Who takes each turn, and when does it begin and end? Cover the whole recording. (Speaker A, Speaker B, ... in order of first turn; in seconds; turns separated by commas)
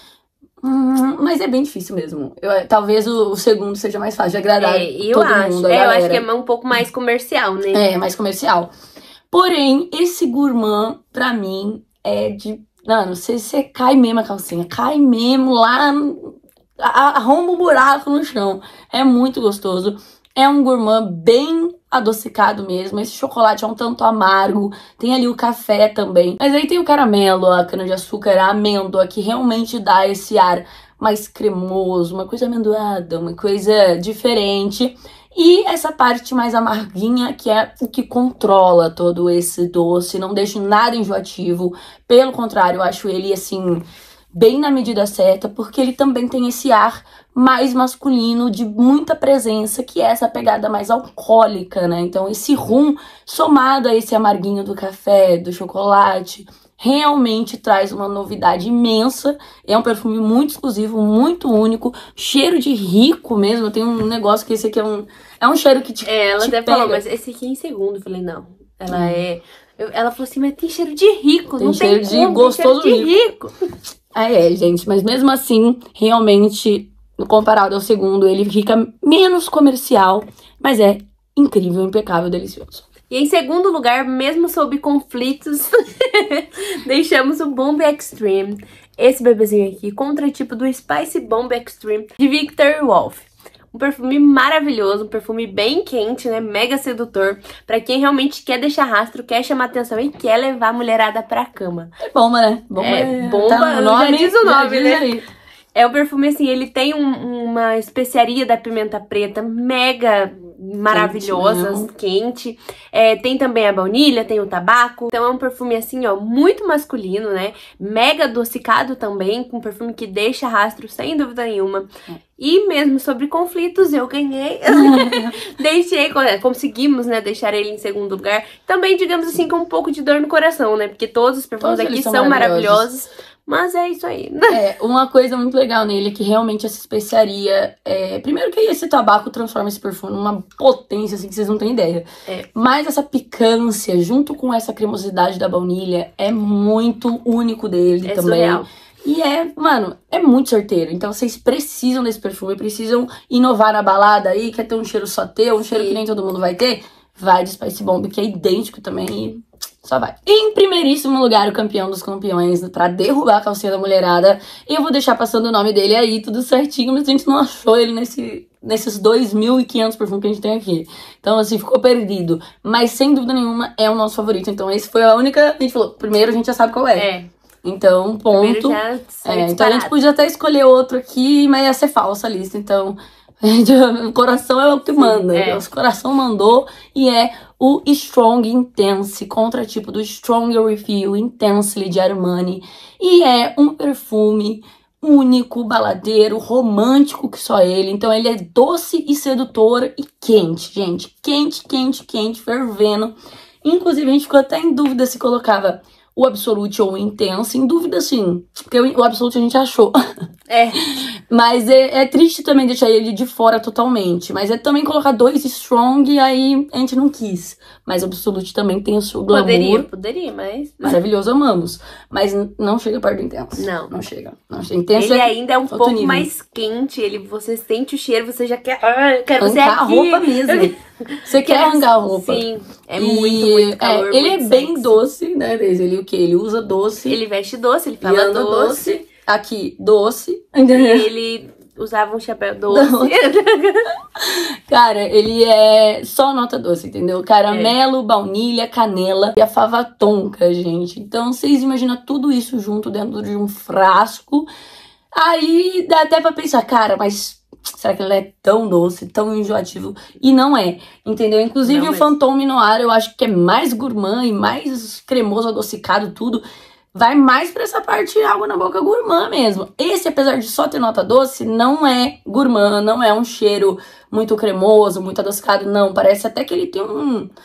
Speaker A: 0.6-6.2, Speaker B: 4.6-7.8, Speaker A: 7.7-8.7, Speaker A: 9.3-67.0, Speaker B: 66.0-73.5, Speaker A: 68.9-69.2, Speaker A: 71.6-73.2, Speaker A: 74.1-82.9, Speaker B: 83.1-101.9, Speaker A: 102.0-105.2, Speaker B: 102.8-105.0, Speaker B: 105.7-134.6, Speaker A: 110.9-111.9, Speaker A: 124.7-125.3, Speaker A: 131.6-132.9, Speaker A: 134.5-177.1, Speaker B: 148.0-148.7, Speaker B: 155.6-156.0, Speaker B: 176.9-177.3, Speaker A: 177.6-210.0, Speaker B: 178.3-179.9, Speaker B: 185.0-185.6, Speaker B: 210.5-210.8, Speaker A: 210.9-219.9, Speaker B: 219.3-221.0, Speaker A: 220.8-226.3, Speaker B: 223.6-223.9, Speaker B: 224.9-235.0, Speaker A: 229.4-230.7, Speaker A: 231.2-232.4, Speaker A: 233.0-237.2, Speaker B: 237.1-238.8, Speaker A: 238.0-241.1, Speaker B: 240.7-243.9, Speaker A: 242.7-243.2, Speaker A: 244.2-254.5, Speaker B: 247.5-247.7, Speaker A: 255.1-266.4, Speaker B: 261.6-262.1, Speaker A: 266.9-277.3